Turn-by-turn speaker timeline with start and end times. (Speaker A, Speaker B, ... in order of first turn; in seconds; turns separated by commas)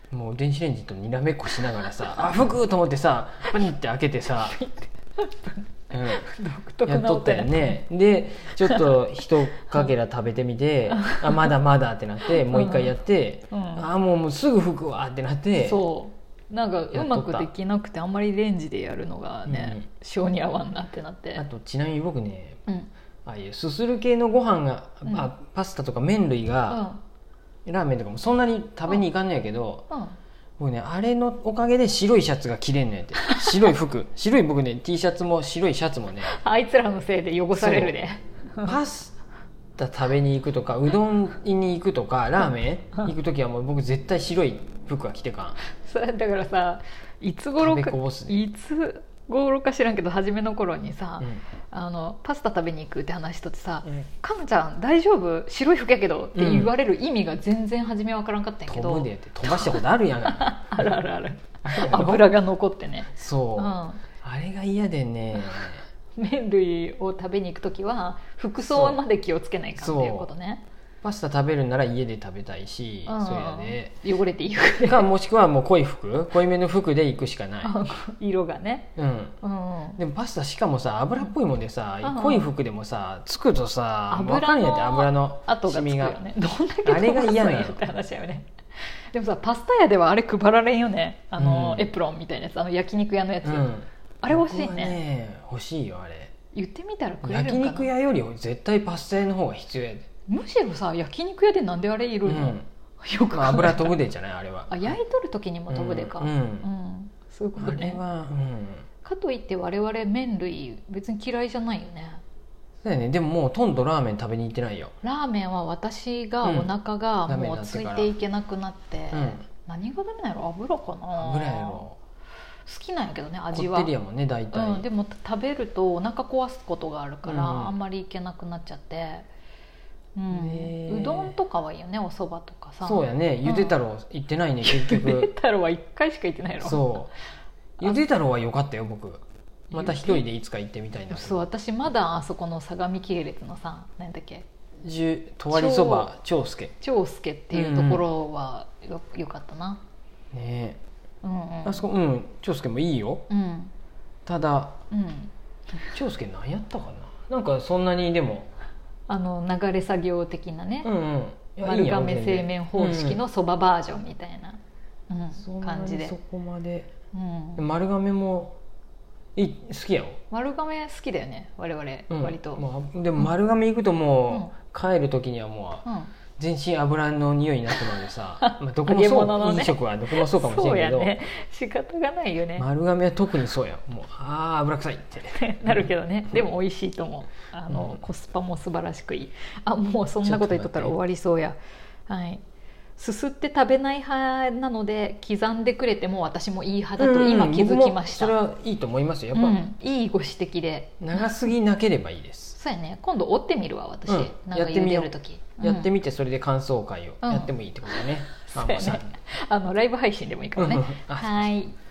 Speaker A: 0.1-4.6, Speaker B: 2.0-2.3, Speaker B: 4.4-7.8, Speaker A: 5.9-6.2, Speaker A: 6.8-15.8, Speaker B: 8.6-9.1, Speaker B: 9.6-9.9, Speaker B: 11.0-11.5, Speaker B: 12.3-12.9, Speaker B: 13.5-13.9, Speaker B: 15.6-21.4, Speaker A: 16.9-17.5, Speaker A: 19.5-19.8, Speaker A: 21.4-22.6, Speaker A: 23.2-26.8, Speaker B: 26.7-27.0, Speaker A: 27.7-29.9, Speaker B: 29.9-30.2, Speaker A: 30.6-36.4, Speaker B: 36.2-38.8, Speaker A: 37.5-38.0, Speaker A: 38.6-39.2, Speaker A: 39.8-45.6, Speaker B: 45.7-64.0, Speaker A: 47.6-48.4, Speaker A: 56.3-56.7, Speaker A: 58.7-60.9, Speaker A: 61.6-62.3, Speaker A: 63.1-65.8, Speaker B: 66.2-70.6, Speaker A: 68.6-69.0, Speaker A: 69.8-70.3, Speaker A: 71.0-73.9, Speaker B: 73.1-75.1, Speaker A: 74.8-77.7, Speaker B: 77.6-80.0, Speaker A: 79.0-79.3, Speaker A: 80.0-86.2, Speaker B: 82.0-82.5, Speaker B: 84.1-88.5, Speaker A: 86.8-87.8, Speaker B: 89.1-95.0, Speaker A: 91.4-91.9, Speaker A: 93.4-96.3, Speaker B: 96.5-97.9, Speaker A: 97.2-100.1, Speaker B: 100.3-104.0, Speaker A: 102.2-102.7, Speaker A: 103.3-105.0, Speaker B: 104.7-108.0, Speaker A: 105.7-106.7, Speaker A: 107.6-108.9, Speaker B: 109.0-112.2, Speaker A: 112.8-114.9, Speaker B: 115.0-121.8, Speaker A: 116.4-116.7, Speaker A: 117.3-118.1, Speaker A: 119.1-119.4, Speaker A: 121.1-122.0, Speaker B: 122.7-123.9, Speaker A: 123.5-124.8, Speaker B: 124.5-129.3, Speaker A: 127.2-127.7, Speaker B: 130.1-133.8, Speaker A: 130.3-131.3, Speaker A: 132.8-135.3, Speaker B: 134.6-136.9, Speaker A: 136.6-137.1, Speaker A: 137.8-141.4, Speaker B: 139.7-140.2, Speaker B: 141.1-144.4, Speaker A: 144.8-146.7, Speaker B: 145.5-146.1, Speaker B: 146.8-149.8, Speaker A: 147.5-148.1, Speaker A: 150.3-150.8, Speaker B: 151.2-151.8, Speaker A: 151.6-153.2, Speaker B: 153.3-153.7, Speaker A: 154.2-154.8, Speaker B: 154.9-155.9, Speaker A: 155.9-158.5, Speaker B: 159.1-160.9, Speaker A: 160.8-163.2, Speaker B: 161.6-166.1, Speaker A: 165.3-166.9, Speaker B: 167.1-167.6, Speaker A: 167.6-168.6, Speaker A: 169.3-170.2, Speaker B: 170.3-172.6, Speaker A: 172.1-175.8, Speaker B: 175.8-176.1, Speaker A: 176.3-181.2, Speaker B: 178.4-182.7, Speaker A: 182.6-186.5, Speaker B: 185.3-192.4, Speaker A: 187.7-188.0, Speaker A: 190.2-191.0, Speaker B: 193.0-198.3, Speaker A: 197.0-199.6, Speaker B: 199.3-201.0, Speaker A: 201.0-202.6, Speaker B: 202.6-205.9, Speaker A: 204.1-209.1, Speaker B: 207.2-211.7, Speaker A: 210.6-211.5